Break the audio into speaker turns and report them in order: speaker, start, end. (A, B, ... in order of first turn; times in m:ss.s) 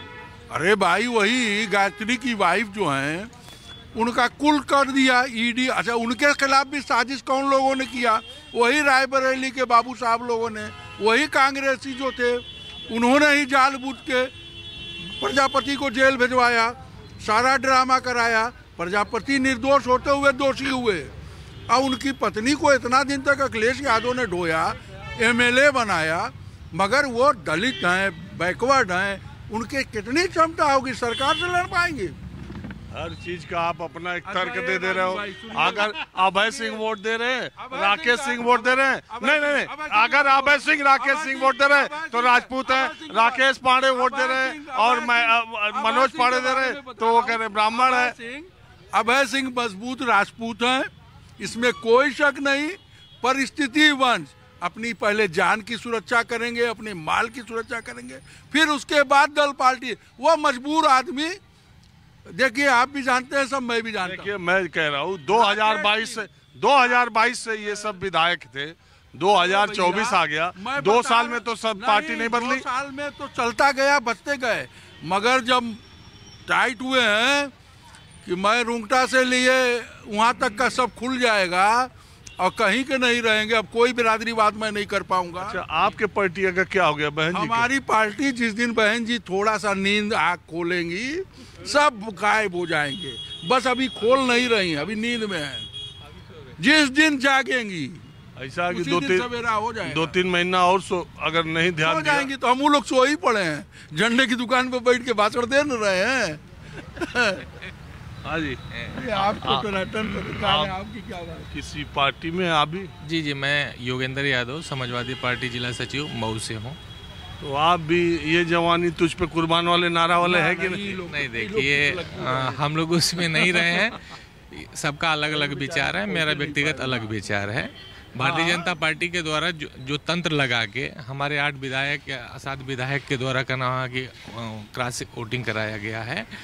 0:00.5-0:03.3 A
0:04.0-0:14.3 A
0:15.2-0:21.1 A
0:21.7-0:32.2 A
0:32.9-0:48.2 B
0:34.2-0:36.8 A
0:37.6-1:01.4 A
1:02.3-1:04.3 A
1:04.0-1:12.6 B
1:05.3-1:06.3 A
1:09.3-1:15.8 A
1:16.5-1:17.5 A
1:18.2-1:25.6 A
1:25.4-1:27.7 B
1:27.3-1:35.7 A
1:36.6-1:38.0 A
1:38.4-1:39.3 B
1:38.7-1:40.2 A
1:39.8-1:42.3 B
1:41.8-1:47.5 A
1:48.2-1:49.7 B
1:48.9-1:51.5 A
1:50.4-1:50.8 B
1:51.5-1:52.9 B
1:53.0-1:56.8 C
1:57.4-2:01.0 B
2:00.2-2:02.7 A
2:01.0-2:16.3 C
2:05.3-2:07.2 A
2:08.2-2:08.7 A